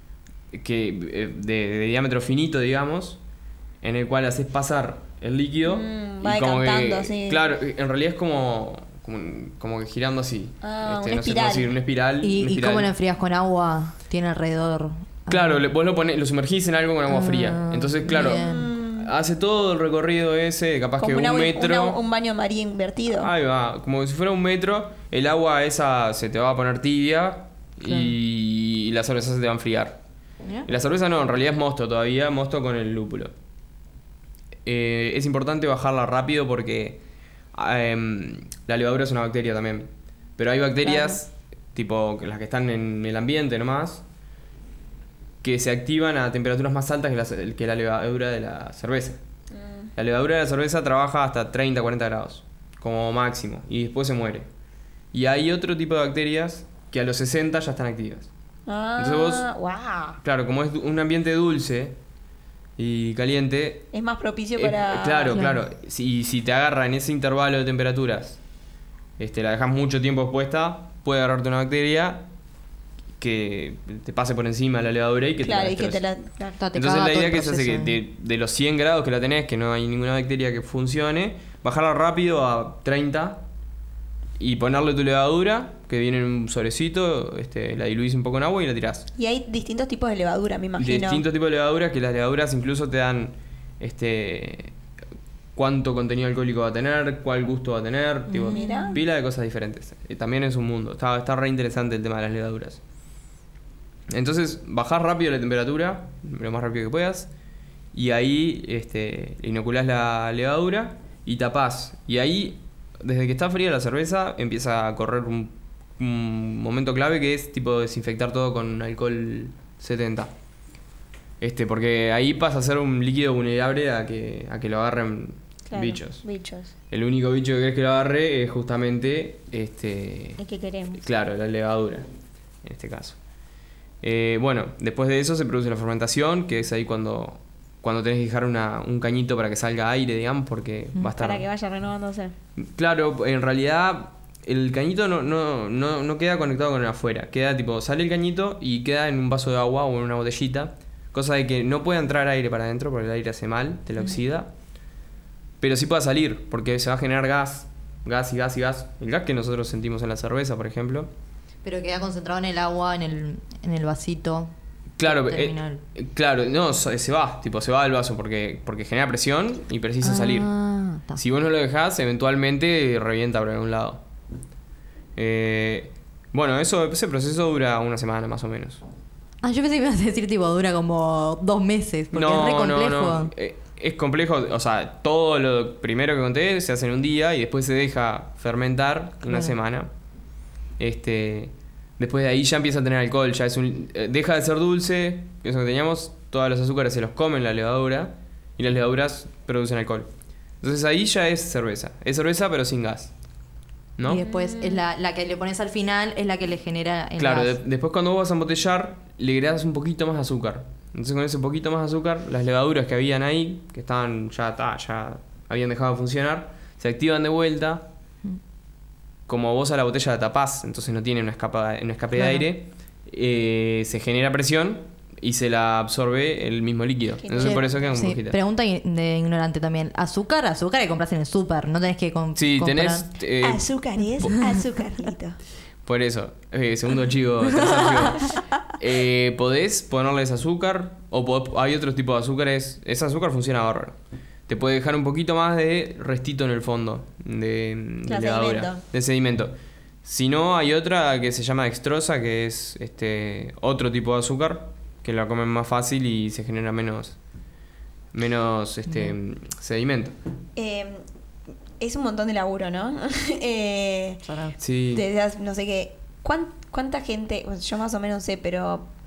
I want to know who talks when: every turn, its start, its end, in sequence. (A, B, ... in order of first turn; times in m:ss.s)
0:00.5-0:03.2 A
0:03.8-0:12.9 A
0:05.6-0:07.4 B
0:10.6-0:11.7 B
0:12.2-0:15.6 C
0:15.3-0:22.0 A
0:17.1-0:18.7 C
0:18.2-0:19.1 B
0:21.0-0:23.3 B
0:23.1-0:30.0 A
0:27.8-0:28.1 C
0:30.6-0:33.3 A
0:34.6-0:37.0 A
0:37.5-0:44.0 A
0:40.8-0:41.2 B
0:45.4-0:49.2 A
0:49.6-0:49.9 B
0:50.0-0:54.5 A
0:55.1-0:58.3 A
0:58.7-1:00.2 B
0:59.0-0:59.4 A
1:00.2-1:02.0 A
1:02.8-1:03.9 A
1:03.9-1:05.5 B
1:04.6-1:08.4 A
1:09.2-1:12.3 A
1:13.2-1:16.0 A
1:15.4-1:16.6 B
1:16.6-1:18.0 C
1:16.7-1:23.4 A
1:24.4-1:29.1 A
1:29.2-1:31.2 B
1:30.8-1:34.7 A
1:35.5-1:42.8 A
1:38.3-1:39.0 C
1:38.5-1:39.0 B
1:44.1-1:47.3 A
1:47.9-2:00.3 A
2:01.4-2:06.2 A
2:05.7-2:06.7 B
2:06.9-2:10.4 A
2:10.4-2:11.0 B
2:10.9-2:12.0 A
2:12.6-2:13.2 A
2:14.0-2:21.5 A
2:21.1-2:22.3 B
2:22.6-2:34.5 A
2:35.6-2:41.1 A
2:41.6-2:44.5 C
2:45.0-2:50.5 A
2:45.0-2:45.8 C
2:50.0-2:51.2 C
2:51.2-2:54.0 A
2:55.2-2:58.8 A
2:59.4-3:03.3 C
3:02.1-3:09.9 A
3:09.3-3:09.5 C
3:10.8-3:20.1 A
3:20.6-3:23.1 A
3:24.0-3:24.2 A
3:24.0-3:27.6 C
3:24.1-3:24.8 B
3:27.2-3:37.9 A
3:39.3-3:48.4 A
3:42.1-3:42.4 C
3:47.2-3:47.8 B
3:47.4-3:53.1 C
3:52.4-3:53.6 A
3:53.4-3:55.4 B
3:55.8-4:17.2 A
3:57.6-3:58.2 C
4:08.0-4:08.8 B
4:18.1-4:20.1 A
4:18.9-4:19.1 C
4:20.6-4:21.0 B
4:21.8-4:24.2 B
4:24.2-4:24.6 C
4:24.6-4:25.0 A
4:24.9-4:28.8 B